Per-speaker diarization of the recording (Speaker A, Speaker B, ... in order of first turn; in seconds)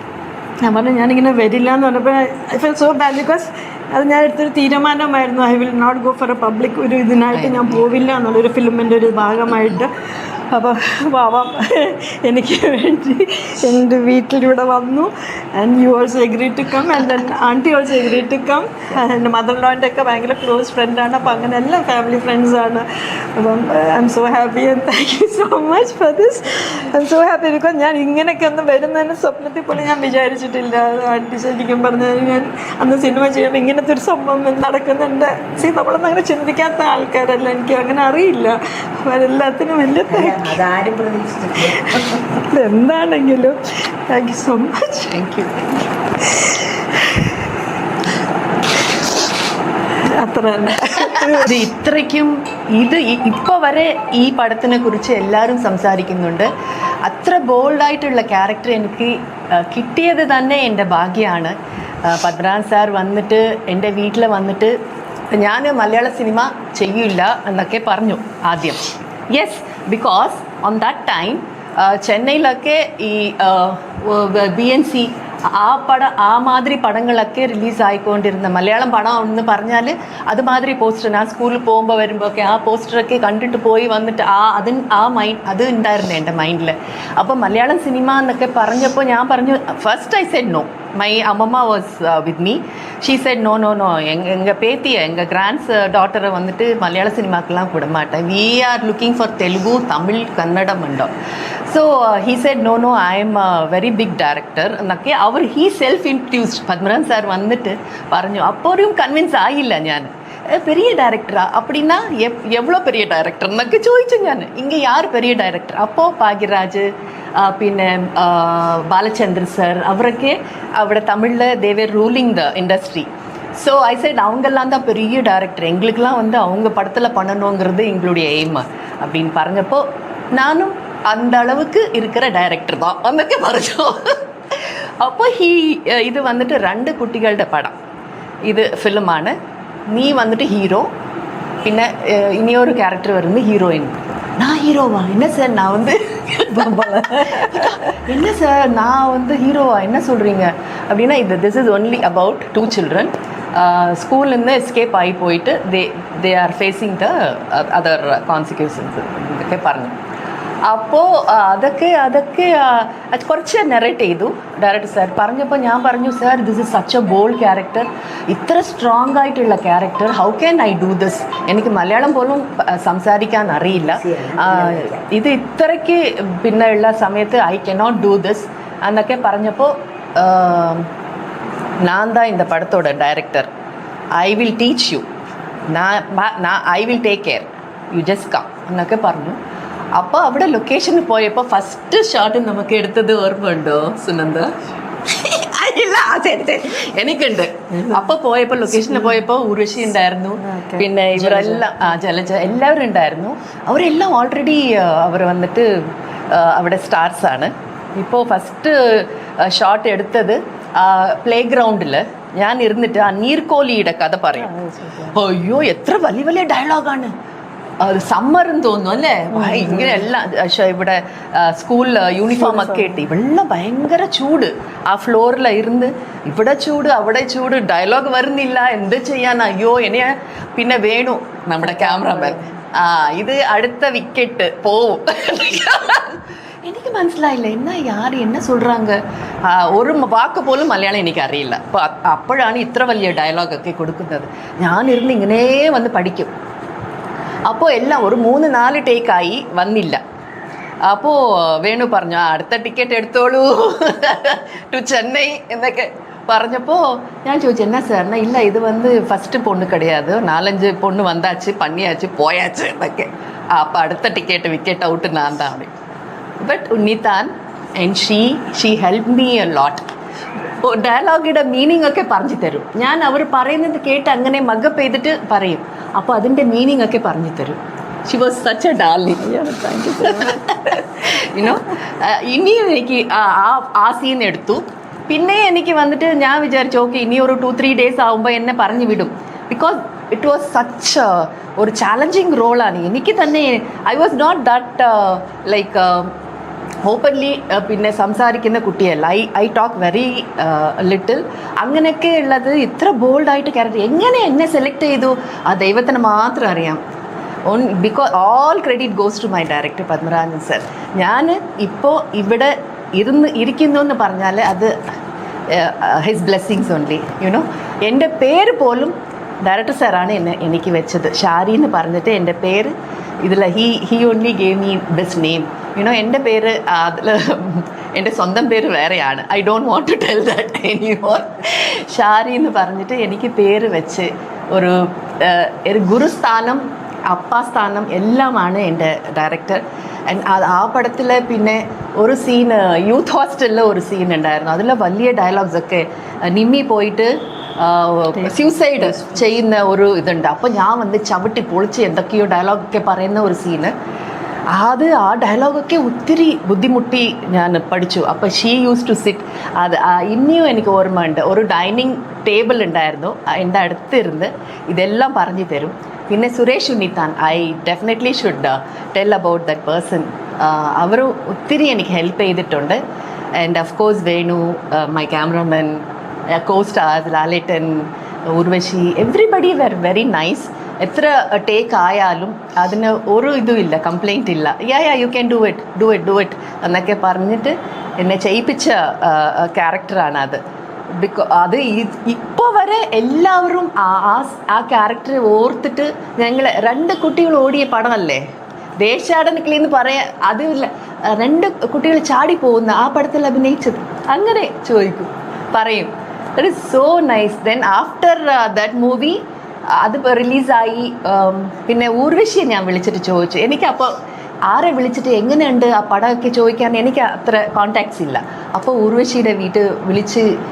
Speaker A: 0.6-9.9, 10.5-40.6, 41.9-45.2, 46.2-47.4, 50.0-51.5, 147.0-147.7, 197.7-198.1, 198.7-199.2, 200.4-201.7, 214.4-215.2, 219.3-220.1, 222.4-223.0, 231.7-232.5, 279.2-280.4, 348.2-349.1
Speaker B: 7.3-7.9, 45.1-45.9, 51.3-56.5, 57.0-64.7, 65.3-101.1, 101.7-116.9, 117.4-123.1, 123.6-137.7, 138.4-139.3, 139.9-140.9, 141.6-159.9, 160.7-180.9, 181.8-183.5, 184.2-185.0, 185.7-189.4, 189.9-194.5, 195.0-205.7, 206.3-214.5, 215.1-217.1, 217.8-246.3, 247.5-250.0, 250.9-265.7, 266.4-269.9, 270.6-296.1, 296.8-306.8, 307.5-314.7, 315.5-353.7, 354.5-372.8, 373.4-390.4, 390.9-398.2, 398.8-409.2, 409.8-413.9, 414.5-420.3
Speaker C: 40.1-42.2, 173.8-175.0